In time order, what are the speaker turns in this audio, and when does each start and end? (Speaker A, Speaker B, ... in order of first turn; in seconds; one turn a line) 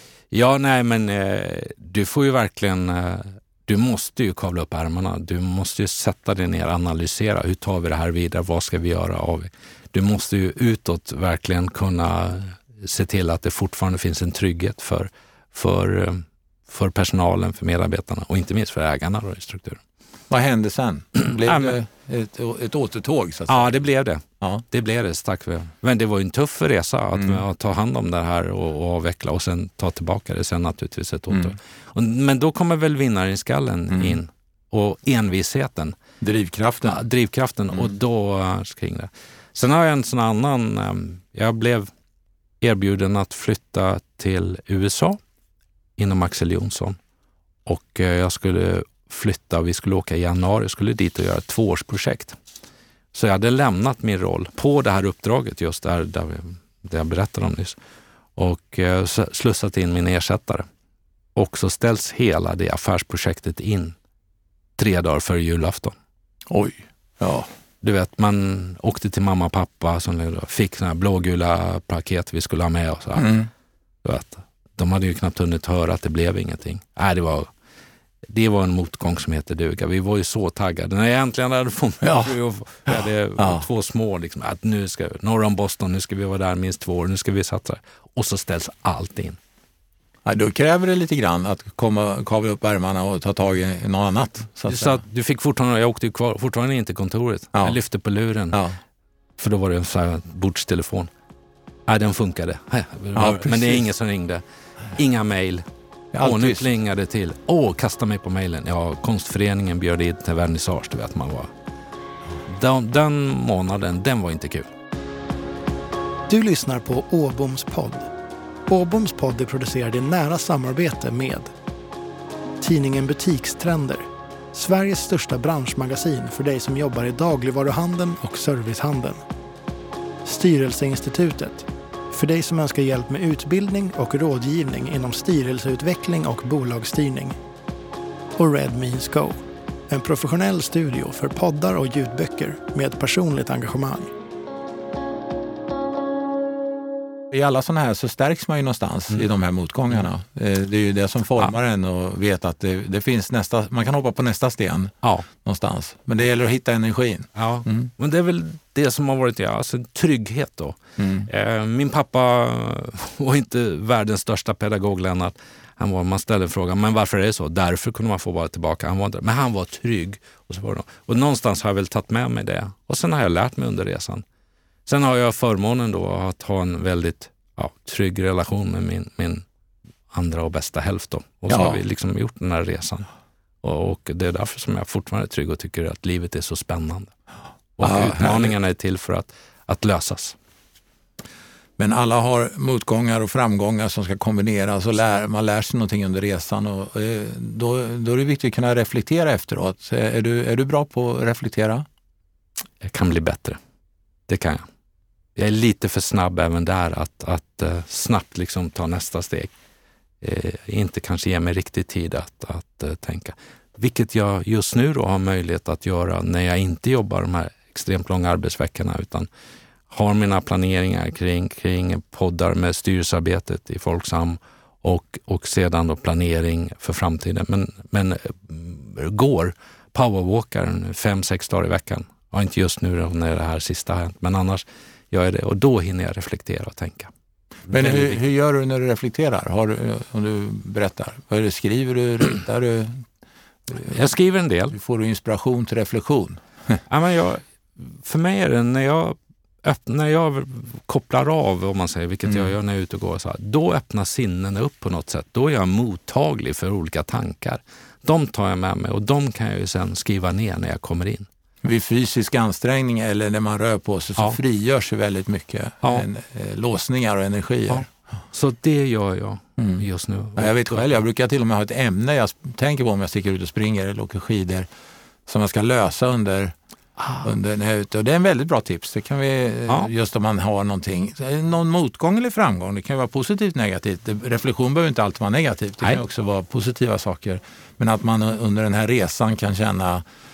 Speaker A: 0.3-19.8
Speaker B: 20.3-23.7
Speaker A: 21.4-21.7
Speaker A: 23.5-36.0
Speaker B: 33.9-34.2
Speaker B: 36.2-37.0
Speaker A: 36.9-41.9
Speaker A: 42.6-45.2
Speaker A: 46.0-47.0
Speaker A: 47.6-52.4
Speaker A: 53.1-57.8
Speaker A: 58.4-60.7
Speaker A: 61.3-64.0
Speaker A: 64.8-66.0
Speaker B: 66.5-67.5
Speaker A: 67.8-73.3
Speaker B: 73.2-73.5
Speaker A: 74.0-77.5
Speaker A: 78.3-89.4
Speaker B: 82.0-82.3
Speaker B: 82.9-83.6
Speaker B: 90.2-95.0
Speaker A: 94.7-98.6
Speaker B: 98.5-98.8
Speaker A: 99.4-101.1
Speaker A: 101.9-104.4
Speaker B: 103.1-103.8
Speaker A: 104.9-105.7
Speaker B: 106.1-106.7
Speaker A: 106.2-111.5
Speaker A: 112.5-114.7
Speaker C: 116.3-118.1
Speaker C: 118.7-121.5
Speaker C: 122.6-129.2
Speaker C: 130.2-137.3
Speaker C: 138.3-144.1
Speaker B: 147.3-157.9
Speaker A: 157.3-174.2
Speaker B: 161.0-161.3
Speaker A: 174.8-179.4
Speaker A: 180.1-183.1
Speaker B: 181.5-181.8
Speaker A: 183.6-187.1
Speaker A: 187.8-190.3
Speaker B: 187.8-188.5
Speaker B: 191.8-201.8
Speaker A: 202.8-203.6
Speaker A: 204.3-204.7
Speaker A: 205.3-209.5
Speaker A: 210.2-219.3
Speaker A: 219.9-237.1
Speaker A: 237.7-238.2
Speaker B: 237.7-243.1
Speaker B: 243.7-243.9
Speaker A: 243.9-244.8
Speaker B: 244.7-246.8
Speaker A: 246.9-261.3
Speaker B: 261.6-267.9
Speaker A: 267.7-270.9
Speaker B: 269.6-269.8
Speaker B: 270.4-274.7
Speaker B: 275.3-276.5
Speaker A: 277.0-277.2
Speaker B: 277.2-290.0